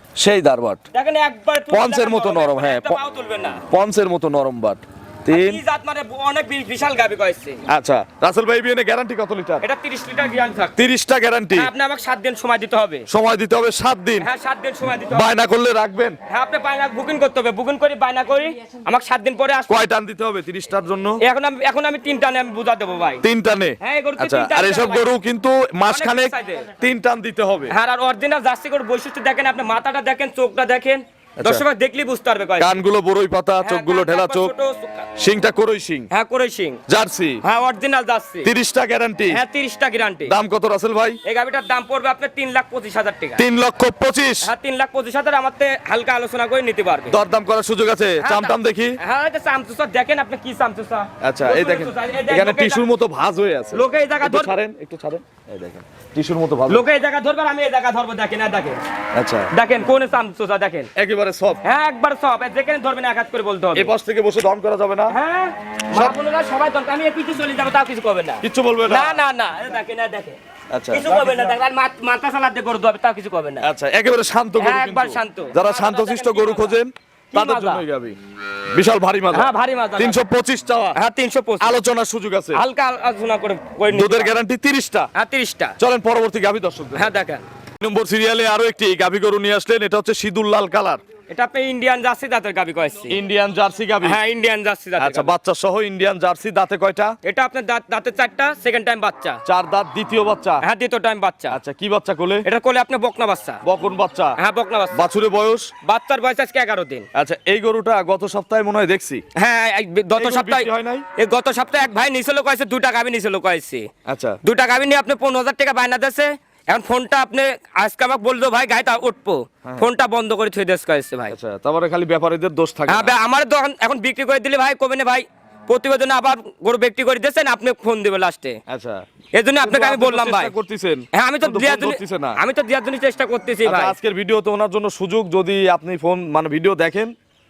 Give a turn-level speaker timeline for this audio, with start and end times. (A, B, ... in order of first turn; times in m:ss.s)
0:00.2-0:00.8 A
0:00.9-0:03.6 B
0:01.7-0:03.0 A
0:03.7-0:05.6 A
0:05.3-0:07.6 B
0:07.7-0:09.6 A
0:09.6-0:10.8 B
0:10.8-0:11.7 A
0:11.6-0:13.1 B
0:13.1-0:14.3 A
0:14.2-0:15.3 B
0:15.1-0:16.2 A
0:16.3-0:19.9 B
0:19.7-0:21.2 A
0:21.2-0:23.2 B
0:23.2-0:27.7 A
0:23.8-0:25.1 B
0:25.9-0:26.7 B
0:27.7-0:32.8 B
0:31.4-0:31.6 A
0:32.6-0:34.5 A
0:33.6-0:35.1 B
0:35.2-0:36.1 A
0:36.1-0:36.8 B
0:36.9-0:37.4 A
0:37.4-0:38.5 B
0:38.4-0:39.4 A
0:39.3-0:40.4 B
0:40.3-0:41.2 A
0:41.2-0:43.4 B
0:43.4-0:44.5 A
0:44.4-0:47.2 B
0:47.1-0:49.0 A
0:48.2-0:52.9 B
0:51.2-0:56.8 A
0:53.7-0:54.5 B
0:56.7-0:58.8 B
0:59.1-0:59.5 A
0:59.5-1:00.9 B
1:01.0-1:01.6 A
1:01.6-1:03.9 B
1:03.8-1:05.2 A
1:05.1-1:10.4 B
1:08.4-1:09.2 A
1:10.7-1:11.3 A
1:10.9-1:13.7 B
1:13.6-1:18.2 A
1:14.6-1:16.8 B
1:17.3-1:17.8 B
1:18.7-1:21.0 A
1:19.3-1:20.2 B
1:21.0-1:21.8 B
1:21.6-1:22.6 A
1:22.5-1:24.4 B
1:23.9-1:25.1 A
1:25.2-1:25.8 B
1:25.8-1:27.1 A
1:27.0-1:27.4 B
1:27.8-1:31.0 A
1:31.3-1:33.2 B
1:33.1-1:34.2 A
1:34.0-1:35.3 B
1:35.0-1:37.2 A
1:37.2-1:39.4 B
1:39.4-1:40.6 A
1:40.6-1:41.6 B
1:41.5-1:42.5 A
1:42.4-1:43.6 B
1:43.6-1:44.4 A
1:44.4-1:45.0 B
1:44.9-1:45.7 A
1:45.8-1:47.1 B
1:47.2-1:49.2 A
1:49.4-1:53.9 B
1:50.2-1:51.0 A
1:54.1-1:54.4 A
1:54.4-2:01.4 B
2:01.3-2:03.2 A
2:02.9-2:08.6 B
2:08.7-2:09.0 A
2:09.4-2:10.5 B
2:09.6-2:12.4 A
2:11.1-2:14.0 B
2:13.6-2:17.1 A